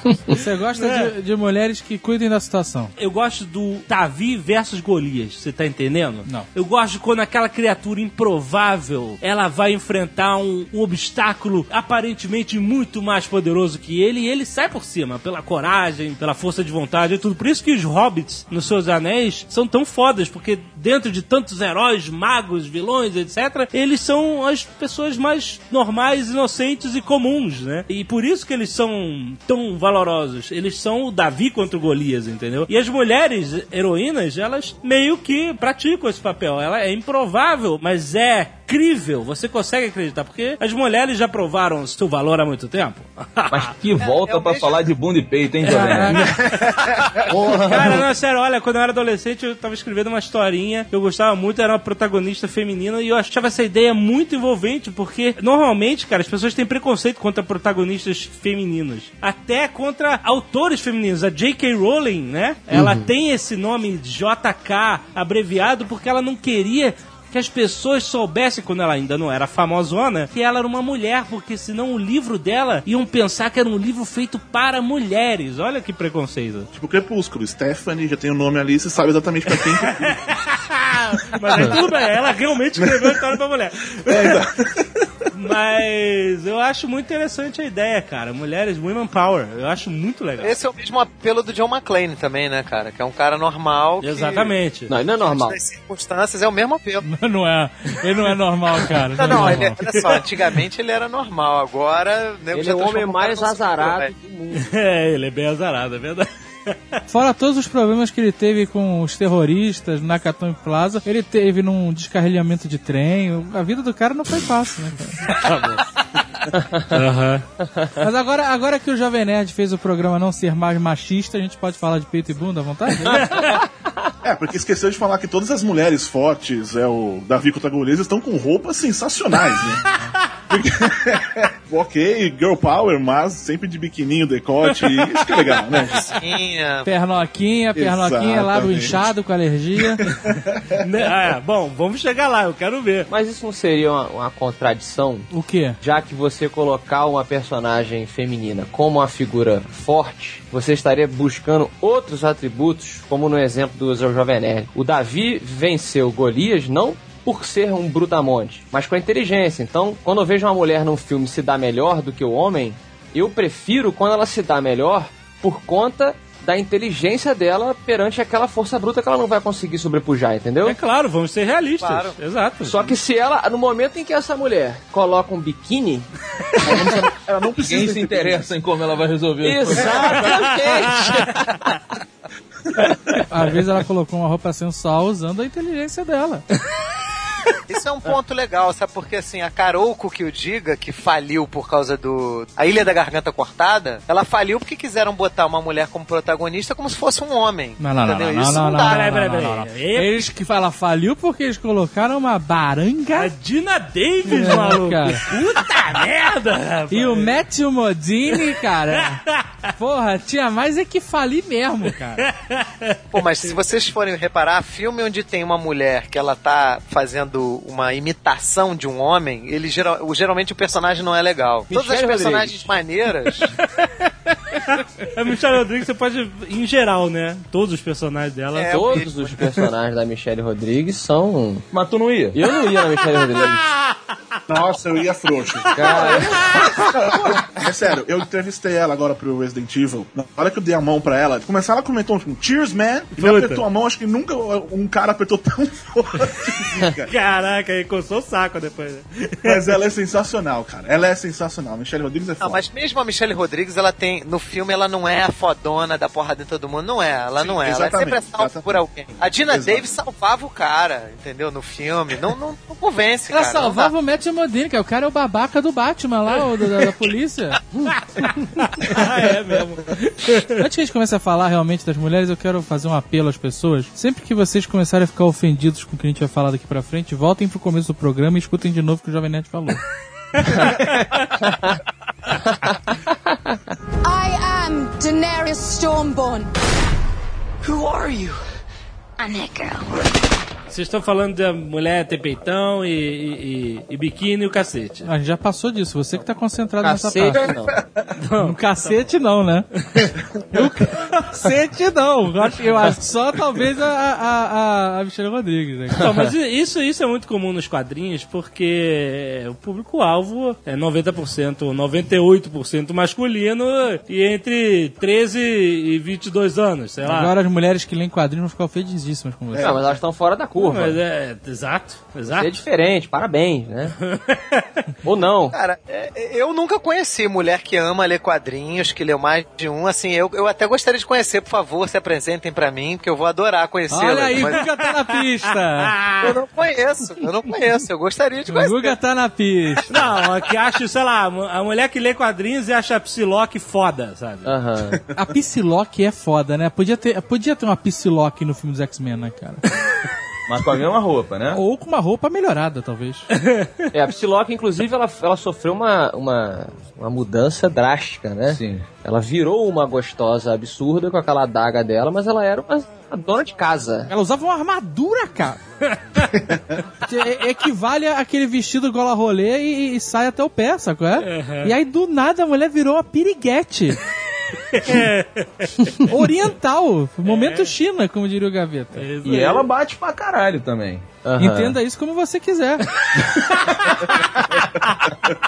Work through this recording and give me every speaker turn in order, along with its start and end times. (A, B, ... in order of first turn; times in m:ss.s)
0:00.3-0:02.9 A
0:00.8-0:01.1 B
0:03.0-0:43.7 B
0:43.5-0:46.6 C
0:44.0-0:44.8 D
0:45.6-0:46.7 B
0:45.6-0:46.3 A
0:47.3-0:48.0 C
0:47.4-1:16.7 B
1:02.7-1:03.1 E
1:16.7-1:20.1 F
1:19.5-1:24.5 B
1:21.5-1:21.8 F
1:22.8-1:23.2 F
1:24.1-1:25.1 F
1:25.3-1:30.5 B
1:30.4-1:34.5 D
1:34.0-1:34.9 B
1:34.9-1:35.6 E
1:35.2-1:37.0 D
1:37.0-1:39.8 A
1:39.2-1:44.1 D
1:39.2-1:40.2 B
1:42.5-1:44.7 E
1:44.5-1:47.0 B
1:47.1-1:55.4 A
1:55.2-1:55.9 B
1:56.6-1:56.8 E
1:56.8-1:57.4 B
1:58.0-2:03.3 A
2:03.1-2:03.5 B
2:03.3-2:03.6 E
2:04.2-2:09.9 F
2:10.5-2:16.2 F
2:15.1-2:16.0 B
2:16.2-2:16.9 D
2:16.8-2:20.0 A
2:17.8-2:19.1 F
2:19.8-2:20.8 F
2:20.8-2:23.1 B
2:23.1-2:50.8 E
2:25.3-2:25.8 A
2:50.6-2:53.0 B
2:51.8-2:52.2 D
2:52.6-2:57.1 E
2:56.6-2:58.4 F
2:57.6-3:00.2 C
2:59.4-3:01.6 E
2:59.9-3:01.4 B
3:03.3-3:06.4 A
3:07.7-3:19.0 D
3:17.8-3:23.3 A
3:18.5-3:20.2 B
3:23.1-3:27.4 B
3:24.3-3:25.2 A
3:26.9-3:29.2 A
3:28.3-3:29.7 B
3:29.8-3:32.2 A
3:32.2-3:33.0 B
3:33.1-3:43.5 D
3:41.7-3:42.7 E
3:43.6-3:49.7 B
3:48.5-3:49.1 D
3:48.7-3:51.6 E
3:51.7-3:52.4 C
3:52.3-3:53.6 E
3:53.1-3:53.5 B
3:54.5-3:56.2 F
3:55.7-3:56.7 B
3:55.7-3:57.4 E
3:56.9-4:07.1 F
4:03.2-4:03.6 B
4:07.1-4:09.8 B
4:09.4-4:12.6 F
4:12.4-4:23.9 D
4:17.4-4:18.8 F
4:19.4-4:19.9 F
4:23.3-4:27.6 A
4:27.8-4:30.6 B
4:30.6-4:39.8 A
4:40.4-4:41.2 B
4:41.4-4:41.8 E
4:44.0-4:46.5 G
4:47.6-4:48.4 E
4:49.2-4:49.8 G
4:50.7-4:55.1 B
4:55.0-4:57.5 A
4:56.8-4:57.7 E
4:57.8-4:58.1 F
4:58.2-4:58.6 B
4:58.4-4:59.7 A
4:59.9-5:00.1 B
5:00.5-5:06.1 A
5:06.0-5:17.3 B
5:06.0-5:06.3 E
5:17.0-5:19.8 A
5:19.5-5:20.0 F
5:19.5-5:21.0 E
5:20.6-5:22.6 B
5:22.3-5:23.9 E
5:24.0-5:24.7 B
5:25.0-5:25.5 E
5:25.5-5:34.6 D
5:33.9-5:35.9 A
5:34.4-5:34.7 B
5:35.8-5:36.3 B
5:36.2-5:39.0 D
5:38.5-5:39.8 A
5:39.9-5:44.5 B
5:44.4-5:45.0 E
5:45.1-5:49.6 A
5:50.5-5:51.6 C
5:51.5-5:53.3 A
5:53.3-5:53.7 B
5:53.9-6:04.1 E
5:58.5-5:58.9 C
6:04.1-6:05.6 A
6:05.8-6:06.4 B
6:07.0-6:14.0 A
6:11.2-6:11.7 B
6:14.7-6:16.0 B
6:16.1-6:19.0 A
6:17.2-6:17.7 B
6:19.0-6:19.7 B
6:19.2-6:21.1 C
6:21.2-6:21.8 E
6:21.4-6:22.9 A